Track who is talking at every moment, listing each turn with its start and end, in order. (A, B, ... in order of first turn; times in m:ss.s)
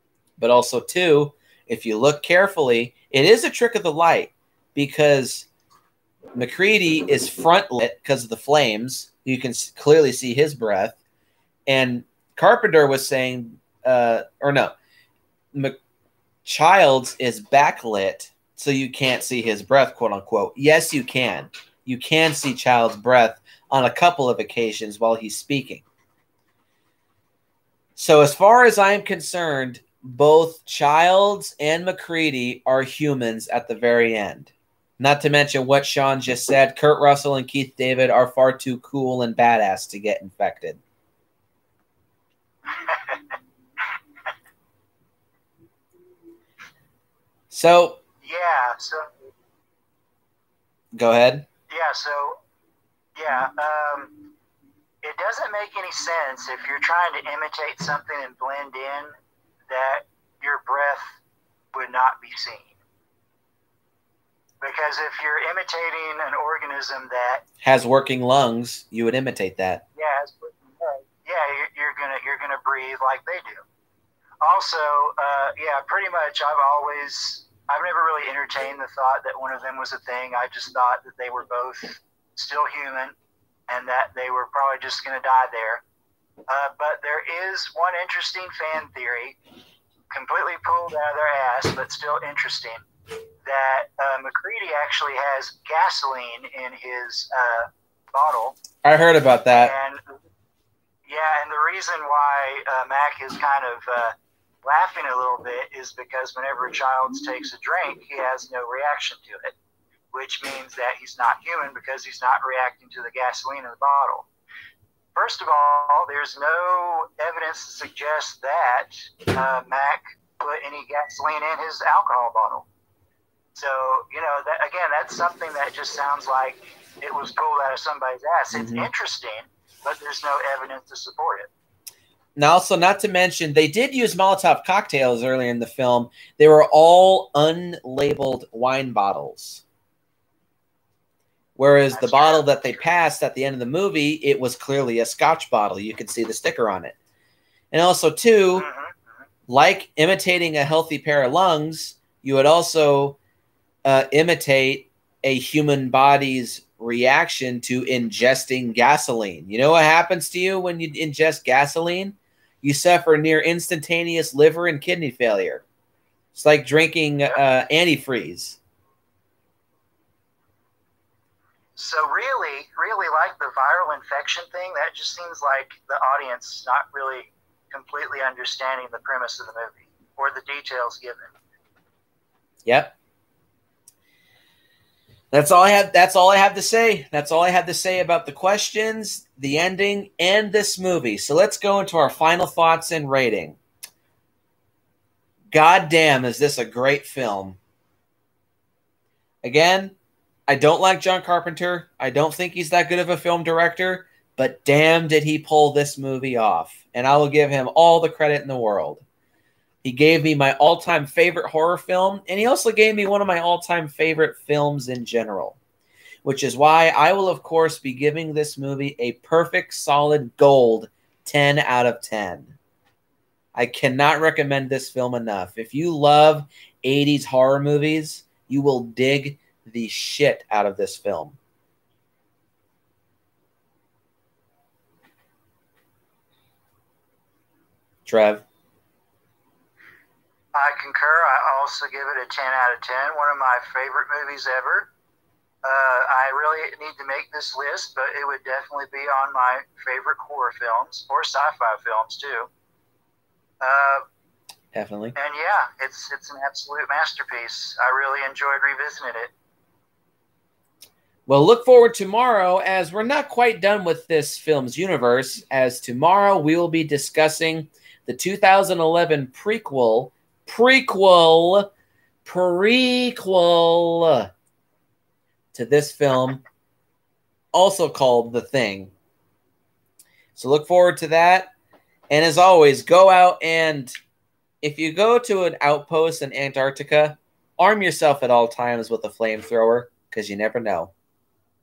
0:00.4-0:05.5 A
0:06.3-0:11.0 A
0:11.7-0:14.7 A
0:16.4-0:25.8 A
0:28.0-0:40.8 A
0:42.7-0:43.3 B
0:47.5-0:48.0 A
0:48.2-0:49.1 B
0:50.9-0:51.4 A
0:51.7-0:52.4 B
0:53.2-0:54.2 B
0:55.0-0:59.1 B
0:59.7-1:01.2 B
1:01.7-1:02.7 B
1:04.6-1:07.4 B
1:07.6-1:09.8 A
1:09.9-1:13.6 B
1:14.4-1:23.1 B
1:23.7-1:25.8 B
1:26.5-1:29.4 B
1:30.1-1:32.8 B
1:33.4-1:38.6 B
1:38.8-1:39.7 A
1:39.5-1:40.1 B
1:41.0-1:49.5 B
1:50.1-1:54.3 B
1:55.1-2:02.6 B
2:03.5-2:11.5 B
2:08.5-2:08.9 A
2:12.4-2:19.6 A
2:21.6-2:26.9 A
2:21.9-2:22.6 B
2:27.7-2:28.6 A
2:28.5-2:29.0 B
2:29.5-2:33.2 A
2:33.8-2:45.6 A
2:46.3-2:48.6 A
2:51.8-3:01.3 B
3:02.6-3:02.9 A
3:05.3-3:13.6 A
3:15.5-3:17.6 A
3:19.4-3:19.9 A
3:20.5-3:29.0 A
3:29.8-3:35.6 A
3:36.2-3:42.5 A
3:43.5-3:51.4 A
3:58.0-3:58.4 A
4:00.5-4:04.9 B
4:05.6-4:12.5 B
4:13.6-4:14.0 B
4:14.7-4:15.1 A
4:15.1-4:19.3 B
4:21.3-4:31.7 A
4:32.2-4:34.3 A
4:35.5-4:36.4 A
4:37.5-4:38.9 A
4:40.3-4:41.5 A
4:42.1-4:43.9 A
4:44.6-4:50.9 A